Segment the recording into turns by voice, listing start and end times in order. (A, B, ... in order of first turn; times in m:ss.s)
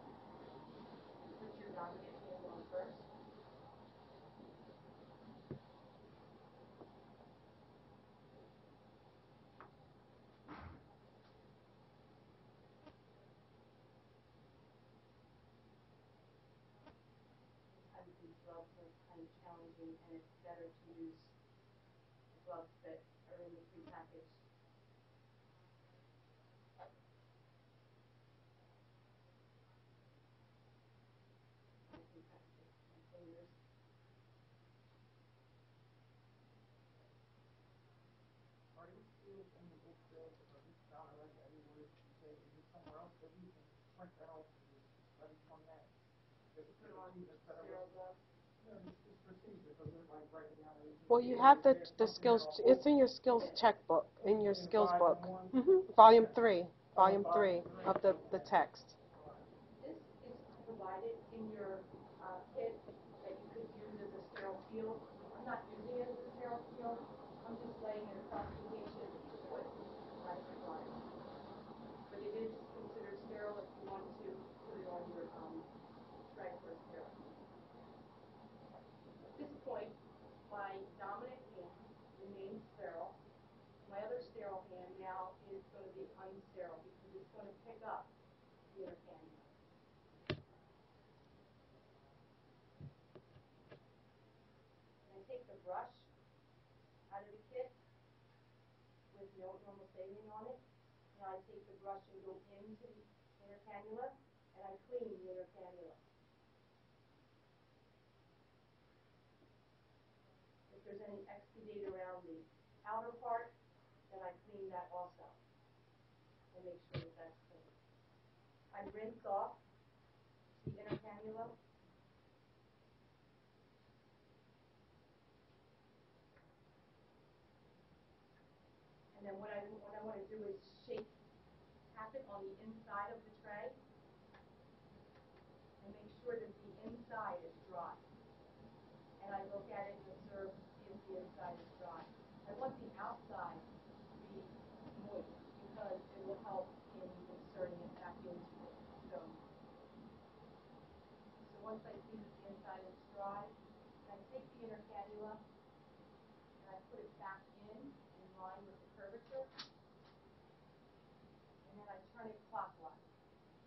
0:01.2-0:03.1 A
0:17.7-0:21.3 A
0:22.3-0:24.4 A
0:31.9-0:33.5 A
0:38.7-0:46.0 B
0:46.5-0:47.9 B
0:46.7-0:48.2 A
0:48.6-0:53.0 B
0:51.1-0:59.0 C
0:53.3-0:53.6 A
0:54.4-0:56.4 B
0:56.9-0:59.5 B
0:59.8-1:11.0 A
1:12.1-1:15.7 A
1:16.3-1:17.3 A
1:19.3-1:23.2 A
1:23.8-1:28.1 A
1:28.7-1:29.5 A
1:35.0-1:36.1 A
1:37.1-1:37.8 A
1:39.1-1:40.6 A
1:41.1-1:46.0 A
1:50.7-1:53.6 A
1:54.1-1:55.4 A
1:56.5-1:57.7 A
1:58.7-1:59.6 A
2:00.6-2:01.6 A
2:09.1-2:11.1 A
2:11.9-2:13.8 A
2:15.8-2:18.0 A
2:19.2-2:29.4 A
2:31.4-2:35.4 A
2:36.6-2:39.5 A
2:41.6-2:43.0 A